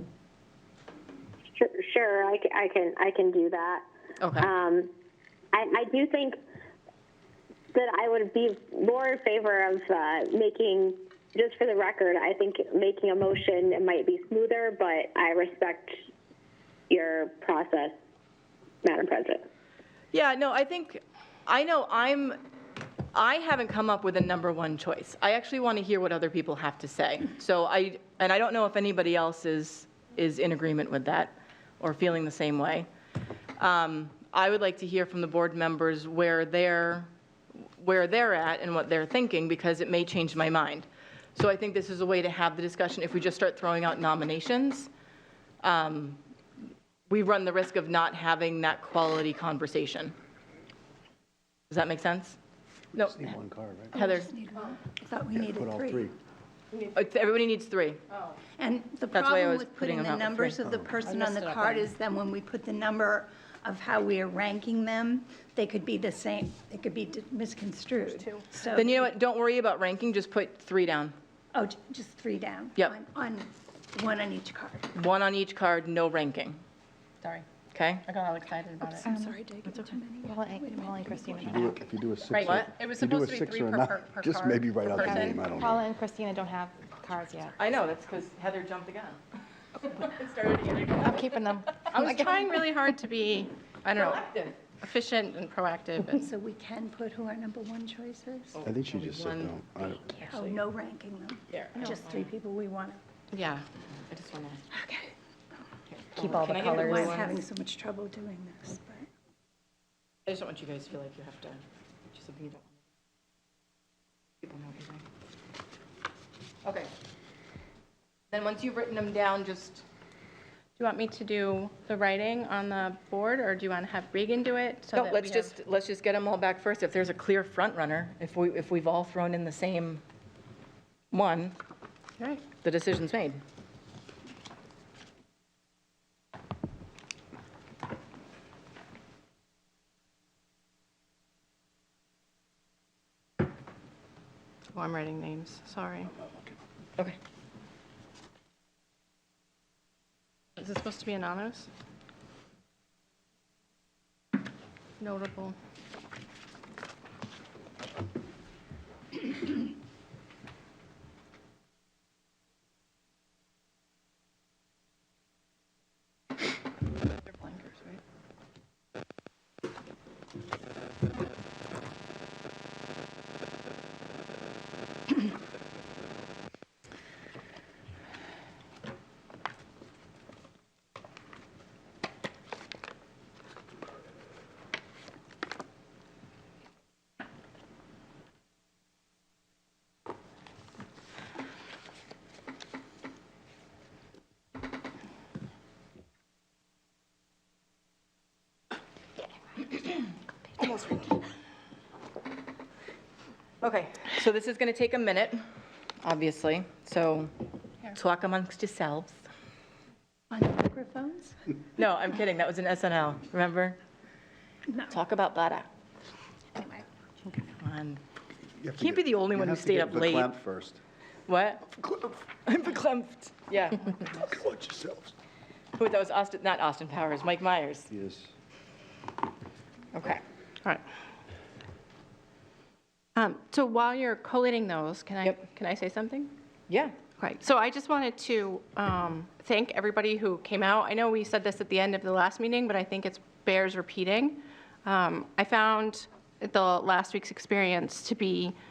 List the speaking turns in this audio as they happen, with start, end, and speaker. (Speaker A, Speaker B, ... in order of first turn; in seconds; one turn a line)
Speaker A: 1.6-3.9
Speaker B: 4.2-4.5
Speaker A: 4.4-4.9
Speaker A: 5.5-6.4
Speaker A: 7.7-16.0
Speaker A: 16.9-17.9
Speaker A: 18.8-19.5
Speaker B: 20.1-22.4
Speaker B: 23.1-32.9
Speaker B: 33.6-37.1
Speaker B: 37.8-44.9
Speaker B: 45.6-46.2
Speaker B: 47.1-50.1
Speaker B: 51.7-52.4
Speaker B: 53.0-53.4
Speaker C: 53.0-53.9
Speaker D: 53.9-56.1
Speaker B: 53.9-54.3
Speaker C: 55.5-56.1
Speaker B: 56.9-58.0
Speaker E: 58.1-58.4
Speaker D: 58.6-69.0
Speaker B: 59.1-60.6
Speaker E: 68.1-68.5
Speaker B: 68.7-71.1
Speaker D: 71.5-74.9
Speaker B: 75.0-76.6
Speaker B: 77.7-78.0
Speaker E: 78.0-79.1
Speaker D: 79.0-81.8
Speaker F: 79.0-81.8
Speaker C: 81.4-85.8
Speaker E: 82.3-85.5
Speaker B: 82.4-82.7
Speaker F: 85.0-87.6
Speaker B: 87.6-89.2
Speaker B: 89.8-91.8
Speaker F: 91.0-92.5
Speaker E: 91.9-94.3
Speaker B: 93.9-94.6
Speaker E: 94.8-96.3
Speaker D: 96.1-98.6
Speaker B: 98.6-100.6
Speaker C: 98.6-100.1
Speaker D: 100.1-103.0
Speaker B: 101.5-102.3
Speaker E: 103.3-103.7
Speaker B: 104.1-104.6
Speaker D: 104.7-105.1
Speaker B: 105.9-107.4
Speaker F: 106.2-107.2
Speaker D: 106.2-109.1
Speaker B: 110.3-112.8
Speaker B: 114.4-115.0
Speaker B: 116.6-116.9
Speaker B: 118.3-119.8
Speaker E: 120.8-125.5
Speaker B: 124.9-130.0
Speaker B: 131.1-131.6
Speaker E: 132.2-132.4
Speaker B: 132.6-133.4
Speaker E: 144.7-146.1
Speaker E: 150.6-151.7
Speaker E: 155.0-155.6
Speaker E: 167.3-168.0
Speaker B: 200.6-201.1
Speaker B: 203.6-205.4
Speaker B: 206.0-207.3
Speaker B: 207.9-209.3
Speaker D: 210.3-211.4
Speaker B: 211.8-213.8
Speaker B: 214.9-215.7
Speaker D: 216.6-217.5
Speaker B: 217.6-218.0
Speaker C: 218.6-220.8
Speaker B: 218.8-220.3
Speaker B: 221.3-221.8
Speaker B: 222.4-224.2
Speaker C: 224.2-225.1
Speaker B: 225.8-227.9
Speaker C: 227.9-228.3
Speaker B: 229.9-230.2
Speaker E: 233.2-236.3
Speaker B: 236.7-237.0
Speaker E: 237.2-248.6